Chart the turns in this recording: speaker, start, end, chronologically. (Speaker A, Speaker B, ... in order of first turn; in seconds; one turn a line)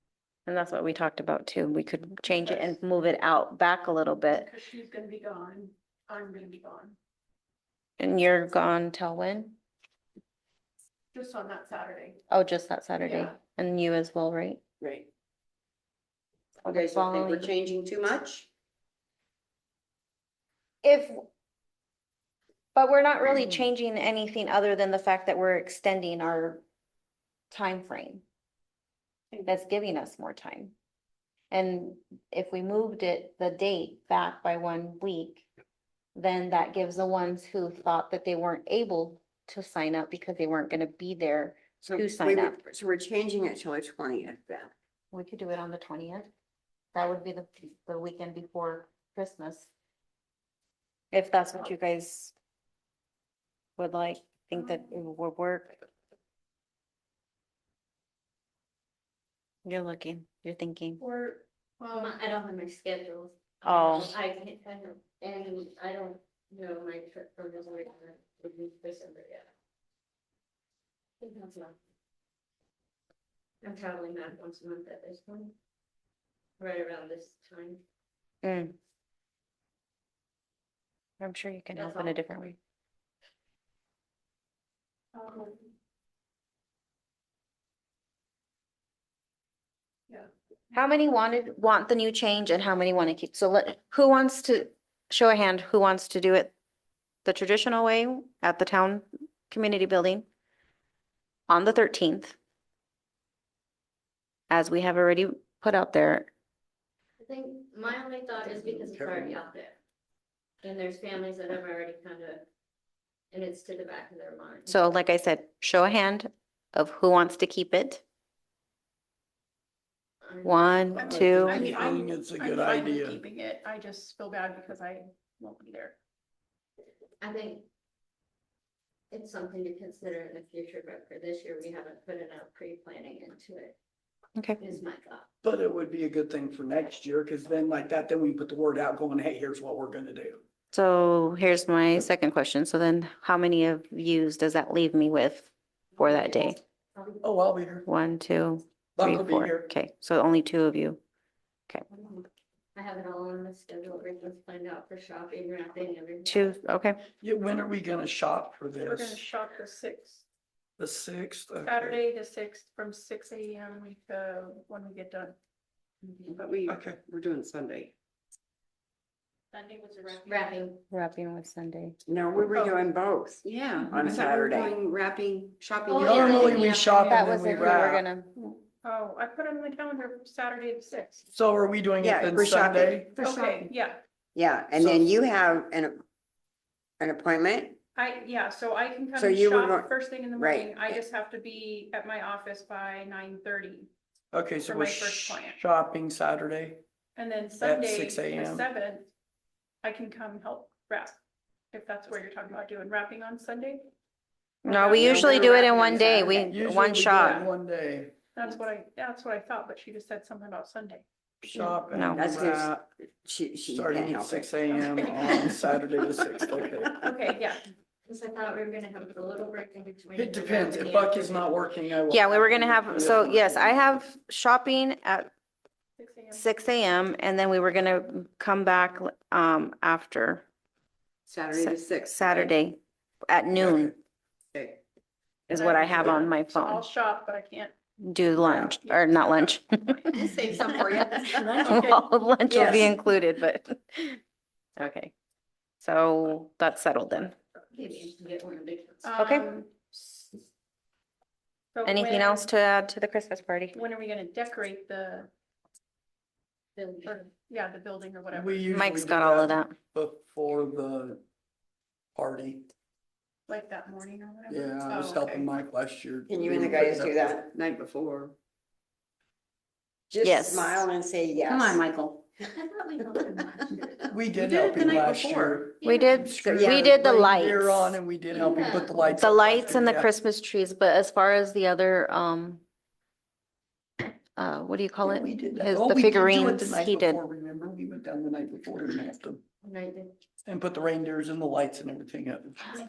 Speaker A: 0.5-4.5
Speaker B: 2.2-2.8
Speaker B: 4.3-7.0
Speaker A: 8.0-9.6
Speaker B: 11.1-12.2
Speaker A: 12.3-14.6
Speaker B: 13.0-13.3
Speaker C: 14.8-15.1
Speaker A: 16.6-17.5
Speaker C: 16.7-18.5
Speaker A: 20.8-21.2
Speaker A: 22.8-26.6
Speaker A: 27.5-28.2
Speaker A: 29.5-30.7
Speaker A: 31.5-35.5
Speaker A: 36.1-42.6
Speaker C: 41.8-44.7
Speaker A: 45.1-46.3
Speaker A: 46.9-49.7
Speaker A: 51.1-52.3
Speaker A: 53.8-55.8
Speaker A: 59.6-61.0
Speaker B: 61.0-62.2
Speaker D: 61.9-69.5
Speaker A: 63.6-64.2
Speaker D: 71.2-71.8
Speaker D: 73.6-75.5
Speaker D: 76.6-77.8
Speaker A: 78.4-78.8
Speaker A: 81.2-82.6
Speaker D: 81.8-82.2
Speaker B: 85.1-85.7
Speaker A: 90.7-96.5
Speaker A: 97.2-100.3
Speaker A: 101.5-102.4
Speaker A: 104.5-106.3
Speaker D: 107.2-109.8
Speaker E: 108.5-109.4
Speaker D: 110.6-112.5
Speaker D: 113.3-114.8
Speaker A: 114.7-118.0
Speaker D: 120.2-122.0
Speaker A: 120.4-121.7
Speaker B: 121.0-126.0
Speaker E: 121.1-123.2
Speaker D: 127.2-127.7
Speaker D: 129.1-133.8
Speaker D: 134.6-135.3
Speaker E: 135.4-140.4
Speaker A: 140.7-146.6
Speaker D: 146.0-147.2
Speaker E: 147.2-147.9
Speaker A: 147.9-151.0
Speaker E: 149.0-149.7
Speaker D: 151.9-156.6
Speaker A: 156.3-157.0
Speaker E: 157.2-159.3
Speaker B: 158.9-160.2
Speaker E: 160.8-162.0
Speaker B: 161.7-165.4
Speaker C: 166.3-167.9
Speaker E: 166.7-167.0
Speaker B: 169.5-170.7
Speaker D: 170.2-170.8
Speaker A: 170.9-172.0
Speaker C: 172.1-176.7
Speaker B: 172.5-172.8
Speaker E: 174.1-174.6
Speaker D: 175.9-177.3
Speaker E: 175.9-178.1
Speaker A: 176.1-178.3
Speaker B: 178.8-181.3
Speaker E: 181.3-183.1
Speaker C: 182.0-183.0
Speaker B: 183.2-184.0
Speaker C: 184.3-186.0
Speaker E: 184.8-185.1
Speaker C: 187.0-187.8
Speaker B: 187.9-193.9
Speaker C: 189.2-191.0
Speaker E: 194.3-196.8
Speaker B: 194.7-195.6
Speaker B: 197.2-199.1
Speaker E: 197.6-198.7
Speaker B: 199.8-201.2
Speaker B: 201.7-203.9
Speaker A: 204.6-207.4
Speaker B: 204.7-206.5
Speaker D: 205.0-206.5
Speaker E: 206.5-208.2
Speaker B: 207.1-207.5
Speaker B: 208.3-211.1
Speaker E: 211.4-212.8
Speaker A: 211.9-212.2
Speaker C: 212.2-215.4
Speaker E: 213.7-217.1
Speaker B: 217.0-217.6
Speaker D: 218.1-221.6
Speaker E: 220.2-223.8
Speaker A: 222.1-225.3
Speaker B: 226.0-226.5
Speaker A: 226.3-230.5
Speaker C: 231.3-232.5
Speaker A: 231.6-233.9
Speaker C: 234.5-234.8
Speaker A: 235.5-236.9
Speaker B: 235.5-237.8
Speaker A: 238.0-240.1
Speaker B: 238.7-240.0
Speaker D: 240.1-241.0
Speaker C: 240.2-241.6
Speaker B: 241.1-242.1
Speaker A: 241.7-244.2
Speaker C: 242.5-242.9
Speaker A: 244.8-245.1
Speaker A: 245.8-247.3
Speaker D: 247.7-249.1
Speaker B: 249.0-250.4
Speaker A: 249.2-249.5
Speaker B: 251.7-252.5
Speaker A: 251.8-253.8
Speaker B: 253.7-255.3
Speaker D: 256.8-257.3
Speaker B: 257.0-259.0
Speaker E: 258.3-261.2
Speaker A: 258.7-259.8
Speaker E: 262.1-262.7
Speaker B: 263.5-265.5
Speaker E: 264.5-267.4
Speaker C: 266.3-268.4
Speaker C: 270.1-271.8
Speaker A: 270.2-270.9
Speaker D: 272.4-273.8
Speaker E: 274.1-280.1
Speaker B: 274.6-275.5
Speaker D: 275.8-276.6
Speaker A: 275.8-278.0
Speaker C: 276.4-277.0
Speaker D: 278.3-279.2
Speaker A: 279.1-282.6
Speaker A: 284.4-287.2
Speaker E: 285.0-289.4
Speaker D: 289.6-290.2
Speaker E: 290.5-292.8